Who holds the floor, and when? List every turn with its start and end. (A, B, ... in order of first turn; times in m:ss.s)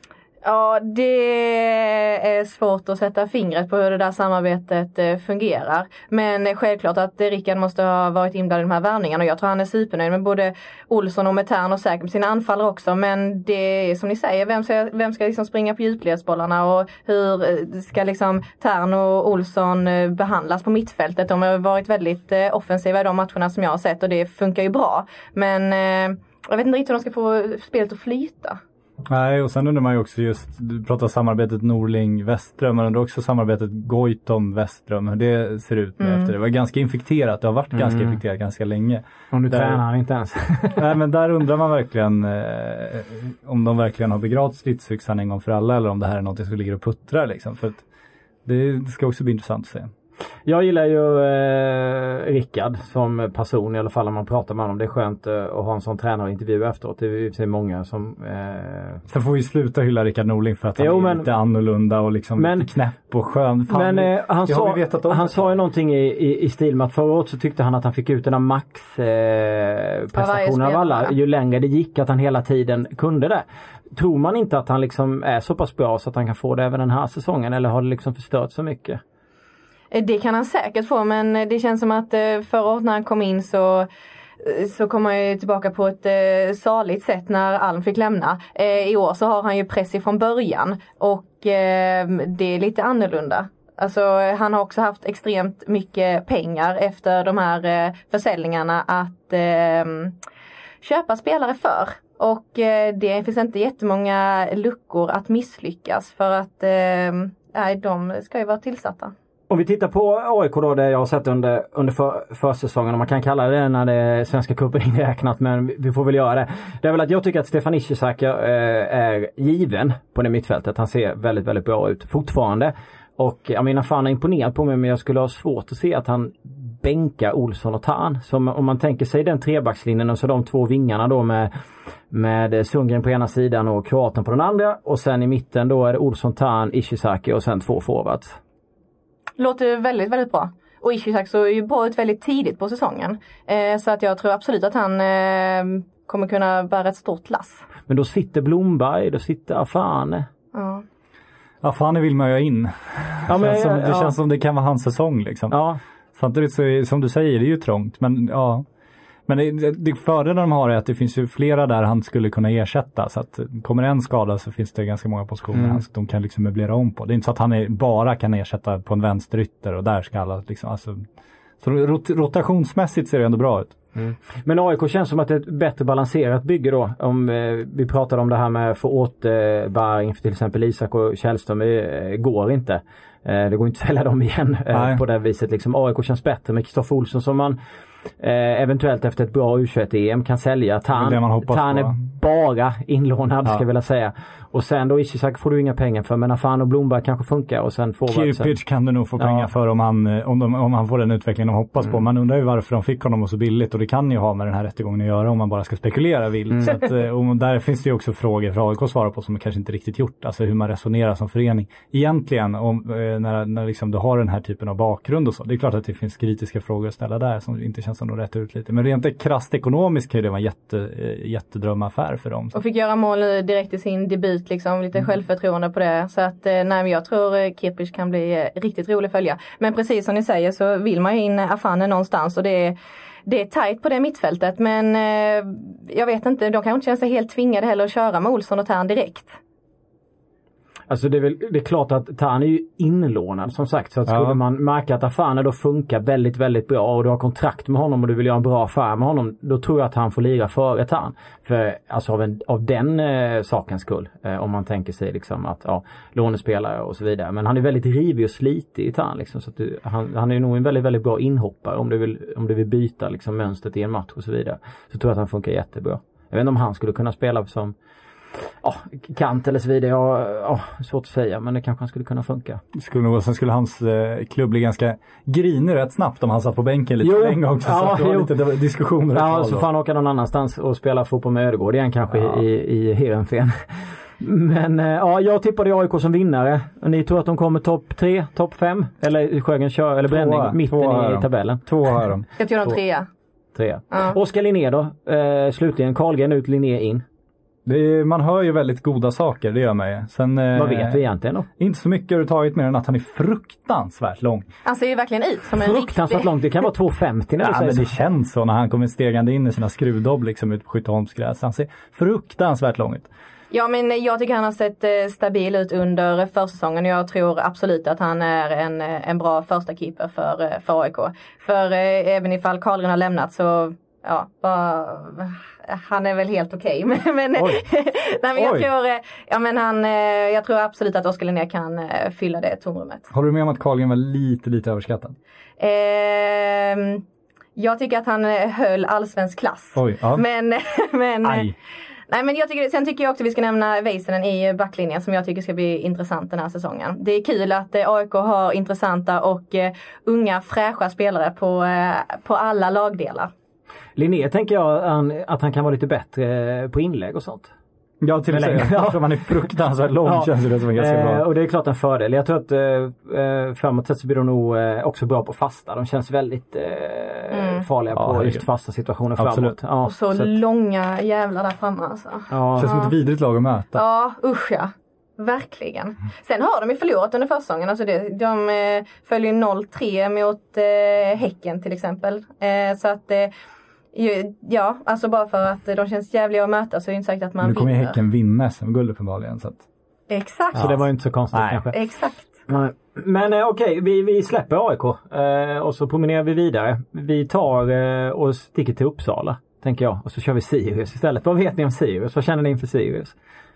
0:00.4-0:28.6 A
0:29.1-0:39.8 B
0:36.0-0:36.3 A
0:37.7-0:38.2 C
0:39.3-0:40.9 C
0:40.8-0:47.8 B
0:48.4-0:49.9 B
0:50.4-0:59.0 C
0:59.1-1:05.5 B
1:00.8-1:01.3 C
1:02.4-1:02.7 C
1:03.7-1:19.0 C
1:10.1-1:11.1 A
1:19.9-1:23.9 A
1:24.4-1:40.1 A
1:40.8-1:49.1 A
1:49.5-2:11.5 C
2:12.1-2:18.4 C
2:19.4-2:27.6 A
2:27.9-2:30.2 C
2:30.5-2:30.8 A
2:31.6-2:35.6 B
2:33.3-2:34.2 C
2:35.5-2:35.8 C
2:36.2-2:38.6 B
2:39.3-2:51.1 B
2:45.5-2:45.8 C
2:51.6-2:53.8 B
2:53.9-3:07.6 C
3:04.7-3:05.0 B
3:08.2-3:18.5 C
3:10.9-3:12.0 B
3:18.1-3:42.6 B
3:19.2-3:19.5 C
3:42.5-3:59.4 A
4:00.9-4:27.7 C
4:04.1-4:04.4 B
4:28.6-4:32.6 C
4:32.7-4:39.6 B
4:37.0-4:38.3 C
4:39.1-4:52.0 C
4:42.1-4:42.4 B
4:50.1-4:52.2 B
4:52.4-4:53.1 A
4:53.5-4:57.0 C
4:57.6-5:01.0 B
5:00.5-5:01.5 C
5:01.6-5:04.4 B
5:04.6-5:06.3 A
5:05.5-5:07.9 C
5:07.4-5:13.1 B
5:13.5-5:33.1 A
5:28.4-5:28.7 B
5:33.1-5:35.2 B
5:35.6-5:37.0 A
5:37.6-5:41.5 A
5:39.7-5:40.2 B
5:41.2-5:41.5 B
5:42.1-5:53.3 A
5:54.0-5:57.5 C
5:58.0-6:01.2 B
5:58.3-5:59.5 C
6:00.0-6:10.2 C
6:07.3-6:07.6 A
6:07.9-6:08.4 B
6:09.2-6:09.6 B
6:09.8-6:12.9 A
6:12.3-6:12.7 C
6:12.5-6:13.8 B
6:13.7-6:23.3 A
6:23.9-6:28.0 A
6:27.4-6:29.6 B
6:30.1-6:30.7 A
6:30.5-6:31.7 C
6:30.6-6:31.7 B
6:31.7-6:32.4 A
6:32.5-6:43.1 C